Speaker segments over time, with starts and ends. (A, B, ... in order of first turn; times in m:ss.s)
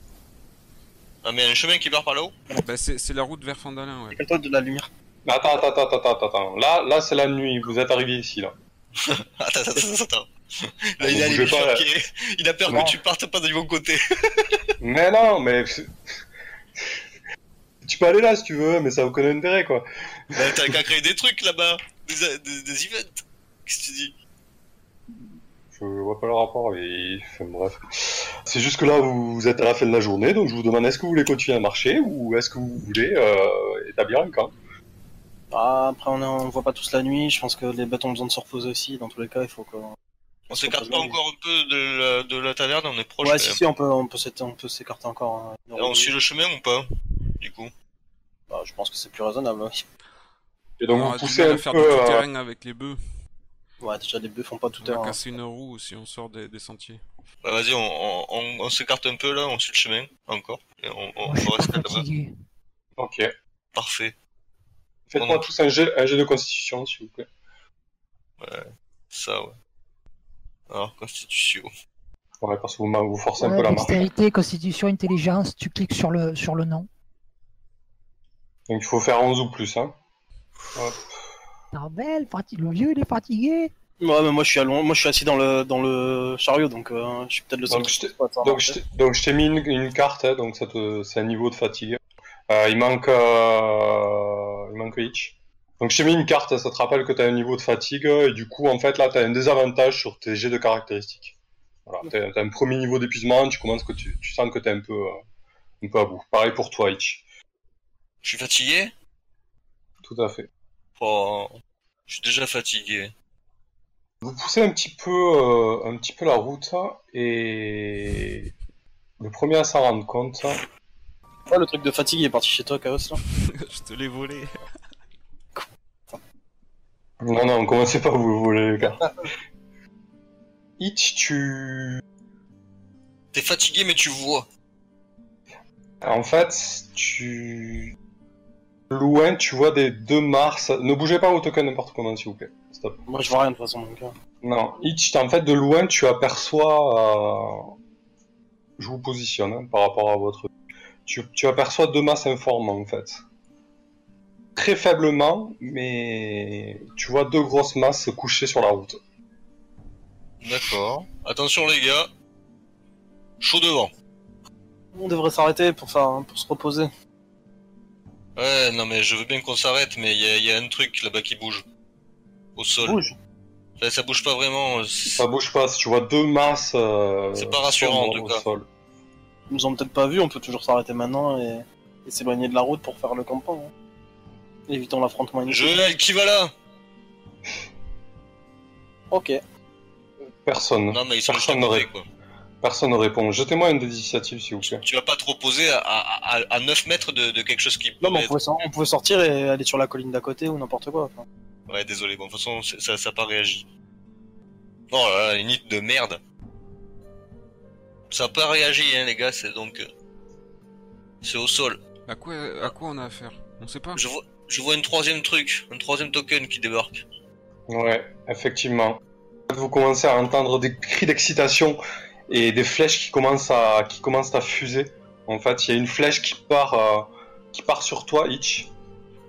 0:01.2-0:02.3 A
0:02.6-0:04.2 B
0:04.1-0:04.9 C
0:05.2-0:08.5 D
0:09.0-0:10.3 A
0:11.0-0:14.0 A
0:11.0-0:11.9 D
0:12.6-0:12.9 D
0:14.8-0:15.9 D
0:17.8-0:20.7 D
0:20.3-0:24.1 A
0:25.7-0:34.5 D
0:35.5-0:39.9 C
0:40.5-0:43.6 A
0:40.6-0:41.2 C
0:43.2-0:46.1 C
0:45.8-0:46.9 A
0:47.4-0:47.7 A
0:48.5-0:49.8 C
0:50.8-0:52.2 D
0:50.9-0:53.0 B
0:53.8-0:55.2 C
0:54.8-0:57.0 B
0:57.4-1:02.0 A
1:01.2-1:02.3 E
1:03.0-1:03.3 D
1:03.7-1:04.1 A
1:05.1-1:07.3 D
1:05.1-1:05.5 A
1:08.4-1:09.5 A
1:10.7-1:11.7 A
1:12.4-1:14.0 D
1:13.4-1:16.9 E
1:18.7-1:19.9 D
1:20.7-1:21.1 D
1:21.7-1:23.7 E
1:24.0-1:28.8 C
1:27.7-1:41.3 D
1:41.8-1:45.2 D
1:45.8-1:47.2 D
1:48.2-1:48.9 A
1:50.0-1:50.5 D
1:51.0-1:53.1 A
1:54.2-1:58.5 D
1:59.2-2:00.6 D
2:01.5-2:03.2 C
2:03.2-2:04.5 B
2:05.6-2:06.2 C
2:07.2-2:09.1 D
2:10.8-2:12.0 D
2:13.3-2:14.5 A
2:16.0-2:17.9 D
2:18.9-2:23.0 D
2:23.1-2:24.1 C
2:24.4-2:27.7 D
2:28.8-2:30.5 D
2:31.0-2:33.2 D
2:34.6-2:39.0 D
2:40.4-2:42.1 A
2:43.4-2:43.9 A
2:44.9-2:46.9 C
2:48.4-2:51.6 A
2:52.6-2:53.0 A
2:52.8-2:53.1 D
2:53.8-2:55.2 A
2:55.1-2:58.7 D
2:57.3-2:58.4 A
2:59.5-3:03.7 C
3:04.7-3:06.0 C
3:05.5-3:06.5 A
3:09.1-3:09.4 C
3:10.4-3:11.9 D
3:10.9-3:12.1 A
3:12.6-3:14.8 D
3:14.6-3:18.3 A
3:18.0-3:21.2 C
3:21.7-3:23.7 A
3:24.9-3:26.2 A
3:28.1-3:29.9 A
3:31.2-3:31.8 A
3:32.1-3:34.0 B
3:33.9-3:37.0 A
3:37.7-3:48.7 D